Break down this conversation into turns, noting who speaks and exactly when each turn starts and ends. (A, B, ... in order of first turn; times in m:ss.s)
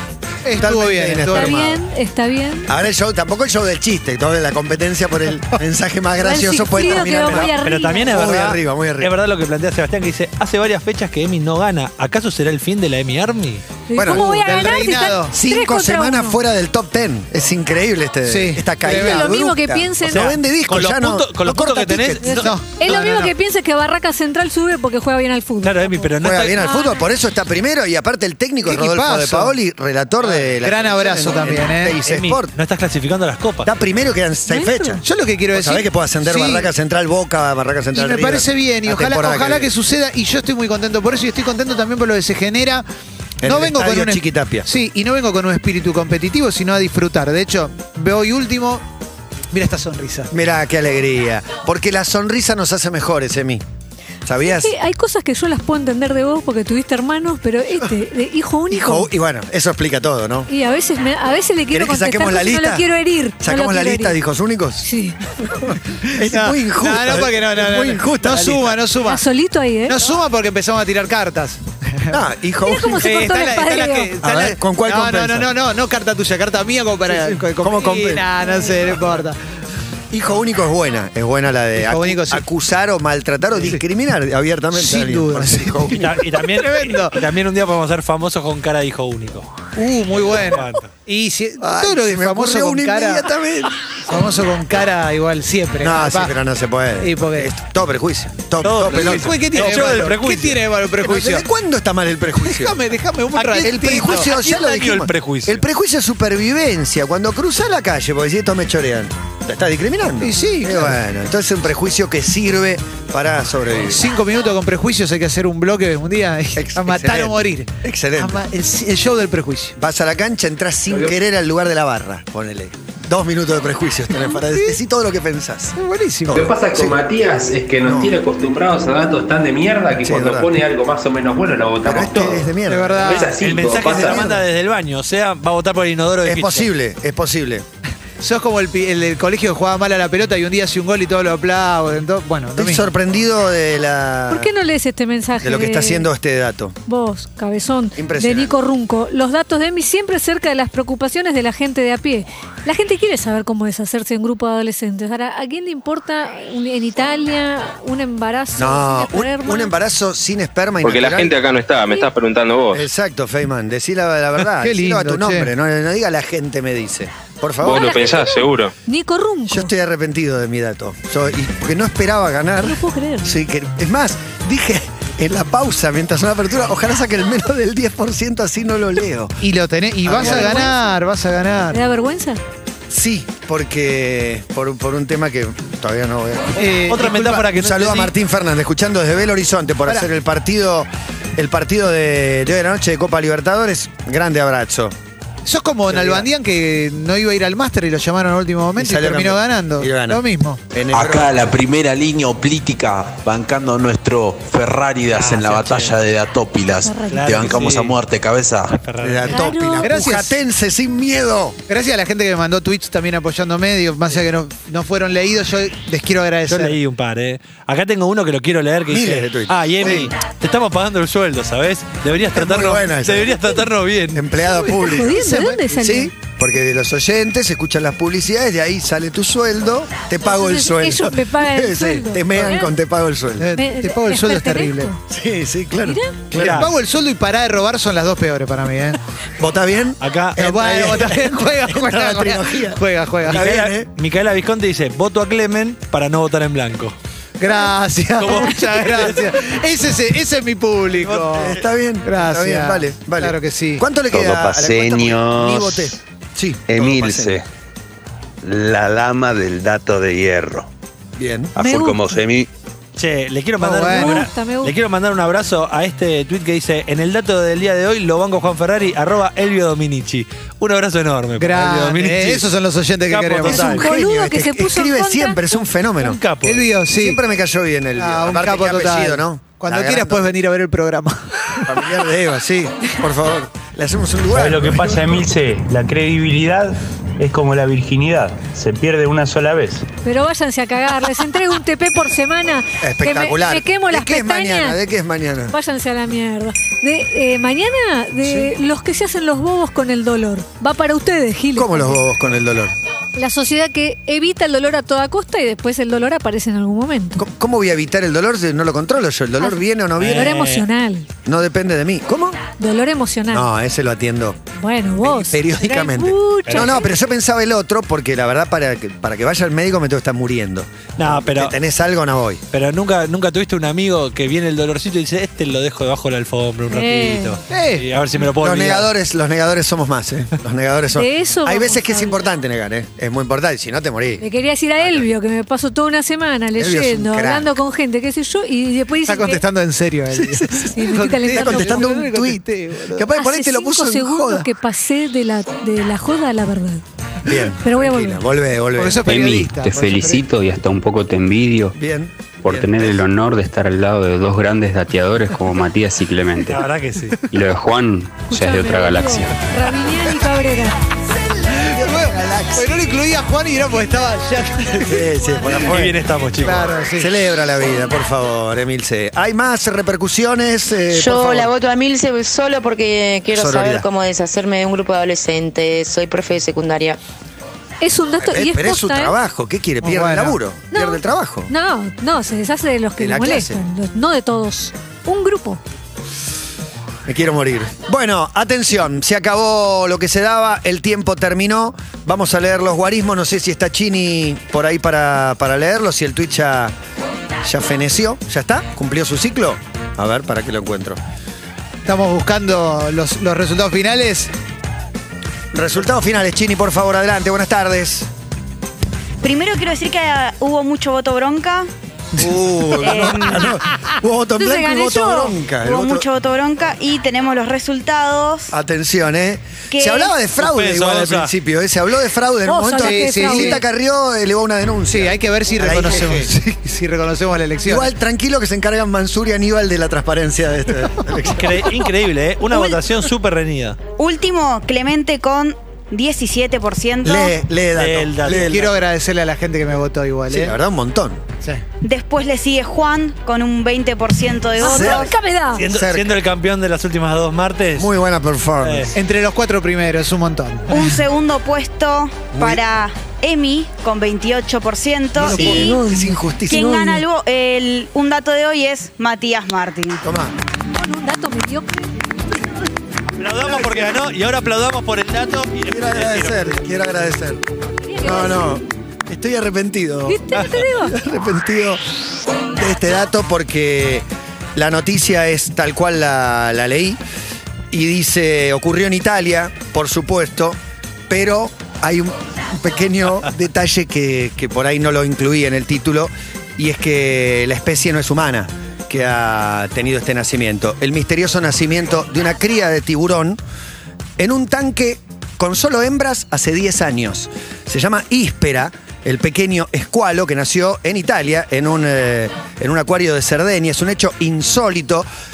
0:00.4-0:01.6 A
0:00.6-0:01.8 B
0:01.3-0:02.7 C
0:02.7-0:07.6 B
0:06.2-0:08.1 C
0:07.6-0:13.7 D
0:08.1-0:09.1 B
0:13.9-0:16.4 C
0:13.9-0:14.5 B
0:14.1-0:15.4 A
0:15.3-0:22.5 B
0:18.3-0:19.3 A
0:18.9-0:20.3 C
0:20.1-0:22.5 D
0:22.4-0:23.3 A
0:22.8-0:27.0 C
0:25.6-0:26.6 D
0:26.2-0:32.5 B
0:28.6-0:29.5 A
0:30.6-0:32.0 A
0:32.0-0:33.7 D
0:33.6-0:39.7 B
0:34.5-0:34.9 C
0:35.0-0:36.7 A
0:37.9-0:42.8 A
0:43.4-0:44.7 B
0:43.4-0:48.8 A
0:49.5-0:50.3 A
0:50.3-0:53.6 B
0:54.3-0:54.7 B
0:54.4-0:59.1 C
0:58.7-1:00.5 B
1:00.5-1:04.2 C
1:01.7-1:02.9 B
1:03.4-1:04.9 B
1:04.8-1:05.2 C
1:05.4-1:08.8 B
1:06.0-1:09.2 A
1:09.1-1:10.0 C
1:09.9-1:12.2 A
1:12.1-1:13.3 B
1:12.6-1:14.1 C
1:13.0-1:19.4 A
1:14.2-1:15.5 B
1:17.1-1:18.3 B
1:20.1-1:26.2 B
1:21.8-1:22.4 A
1:24.8-1:27.2 A
1:26.0-1:29.5 D
1:29.8-1:33.3 A
1:30.1-1:30.9 D
1:31.6-1:33.8 B
1:34.1-1:36.3 A
1:35.8-1:39.9 B
1:37.0-1:37.5 A
1:38.6-1:40.6 D
1:38.9-1:41.5 A
1:41.0-1:42.8 B
1:42.4-1:44.3 A
1:43.4-1:54.0 B
1:44.2-1:45.6 D
1:50.2-1:51.0 A
1:53.9-1:59.8 A
1:56.6-1:58.4 B
1:59.8-2:05.8 B
2:04.2-2:04.8 A
2:05.8-2:06.5 A
2:06.3-2:07.0 B
2:06.4-2:12.4 E
2:07.8-2:08.2 B
2:10.0-2:10.5 B
2:11.8-2:13.3 B
2:12.7-2:13.3 A
2:13.1-2:14.1 E
2:13.3-2:16.7 D
2:13.8-2:14.5 B
2:16.2-2:17.7 B
2:18.2-2:22.9 A
2:22.6-2:24.5 B
2:24.3-2:26.1 C
2:25.4-2:26.8 B
2:26.9-2:39.7 C
2:28.0-2:28.6 B
2:38.6-2:41.4 B
2:40.8-2:42.8 F
2:42.7-2:48.0 B
2:44.5-2:45.5 A
2:47.6-2:48.7 F
2:47.7-2:49.7 C
2:49.5-2:59.3 B
2:52.6-2:53.3 C
2:59.4-3:01.8 A
3:00.0-3:00.7 B
3:00.2-3:00.9 C
3:01.7-3:02.4 C
3:02.9-3:06.7 B
3:06.6-3:07.5 A
3:06.9-3:08.1 D
3:07.5-3:15.0 B
3:15.4-3:20.6 A
3:15.9-3:16.3 B
3:18.8-3:21.4 B
3:20.9-3:28.8 G
3:25.1-3:26.0 D
3:26.8-3:27.5 C
3:27.1-3:28.0 D
3:28.7-3:29.4 D
3:29.0-3:31.6 B
3:29.3-3:30.0 C
3:29.8-3:30.4 A
3:31.7-3:36.8 A
3:36.5-3:44.3 D
3:38.9-3:40.1 B
3:42.3-3:43.6 B
3:44.1-3:45.2 B
3:44.7-3:45.6 A
3:44.8-3:46.1 C
3:45.7-3:53.5 B
3:50.2-3:52.7 C
3:53.4-3:54.9 A
3:53.6-3:55.0 C
3:55.1-3:56.7 B
3:55.8-3:56.2 C
3:56.3-3:56.7 D
3:56.3-3:59.0 A
3:59.4-4:03.9 B
4:00.0-4:00.4 D
4:00.4-4:03.4 A
4:03.3-4:07.0 D
4:07.4-4:13.8 A
4:08.2-4:09.2 D
4:11.0-4:17.4 B
4:14.2-4:14.8 H
4:14.2-4:15.6 E
4:15.4-4:15.8 H
4:16.8-4:17.2 E
4:18.5-4:19.0 E
4:19.6-4:20.3 E
4:21.2-4:21.5 B
4:21.6-4:22.5 H
4:21.6-4:22.0 C
4:21.7-4:22.0 E
4:23.0-4:32.5 D
4:23.6-4:24.2 A
4:23.9-4:24.7 C
4:31.4-4:33.7 A
4:33.1-4:33.9 D
4:33.4-4:36.2 B
4:33.5-4:35.7 C
4:36.0-4:36.7 D
4:36.4-4:37.2 A
4:36.9-4:40.3 B
4:38.0-4:42.0 A
4:41.6-4:45.2 B
4:44.3-4:49.8 I
4:50.0-4:54.8 C
4:52.8-4:55.6 B
4:55.5-5:02.0 C
4:58.2-4:58.5 B
5:01.6-5:02.8 B
5:03.2-5:07.2 C
5:07.2-5:10.4 B
5:09.4-5:11.1 C
5:10.0-5:10.6 D
5:11.2-5:12.4 B
5:12.6-5:13.5 C
5:13.3-5:14.4 B
5:14.6-5:16.9 C
5:15.0-5:22.4 B
5:16.5-5:16.8 D
5:21.0-5:21.5 D
5:22.5-5:28.9 D
5:26.7-5:27.4 C
5:27.5-5:27.8 A
5:28.4-5:34.2 B
5:31.0-5:32.3 C
5:34.2-5:39.4 C
5:36.6-5:37.5 B
5:39.0-5:43.1 A
5:40.1-5:40.6 B
5:40.7-5:42.0 C
5:41.3-5:44.5 B
5:43.2-5:46.8 C
5:47.2-5:50.3 B
5:47.6-5:48.2 C
5:48.8-5:49.9 A
5:49.1-5:51.8 J
5:51.7-5:53.1 B
5:52.4-5:56.6 J
5:56.5-5:57.2 D
5:57.3-5:59.5 J
5:58.3-6:00.8 C
6:01.1-6:02.9 B
6:01.5-6:05.1 A
6:04.7-6:06.0 B
6:05.4-6:06.7 D
6:06.4-6:07.1 A
6:06.9-6:11.6 B
6:10.9-6:17.0 K
6:13.3-6:13.9 B
6:17.8-6:19.2 C
6:18.2-6:21.5 B
6:19.8-6:20.4 A
6:20.7-6:25.6 C
6:23.0-6:23.6 B
6:27.1-6:36.8 B
6:37.4-6:41.0 B
6:41.8-6:44.3 A
6:45.5-6:48.1 B
6:49.2-6:51.7 L
6:52.2-6:56.1 B
6:52.8-6:53.6 L
6:54.4-6:55.4 C
6:55.6-6:58.5 L
6:58.5-7:06.3 B
6:59.7-7:00.1 L
7:00.4-7:01.3 D
7:02.5-7:03.6 C
7:02.8-7:03.6 A
7:04.9-7:07.9 A
7:07.6-7:11.7 B
7:11.3-7:13.8 D
7:14.0-7:17.4 L
7:17.0-7:18.8 B
7:17.8-7:18.6 D
7:18.3-7:20.6 A
7:20.3-7:21.2 B
7:21.8-7:25.1 L
7:24.6-7:25.6 C
7:24.6-7:25.1 B
7:25.6-7:27.9 D
7:25.7-7:26.2 B
7:27.8-7:28.9 B
7:28.6-7:28.9 D
7:29.0-7:31.0 A
7:30.7-7:40.0 L
7:32.3-7:32.6 B
7:35.2-7:37.0 B
7:40.0-7:40.3 B
7:40.8-7:41.9 C
7:43.2-7:46.6 D
7:45.7-7:47.4 B
7:47.8-7:48.6 C
7:48.0-7:51.8 B
7:50.1-7:51.0 C
7:52.5-7:57.0 B
7:57.7-8:13.4 B
8:14.2-8:25.1 B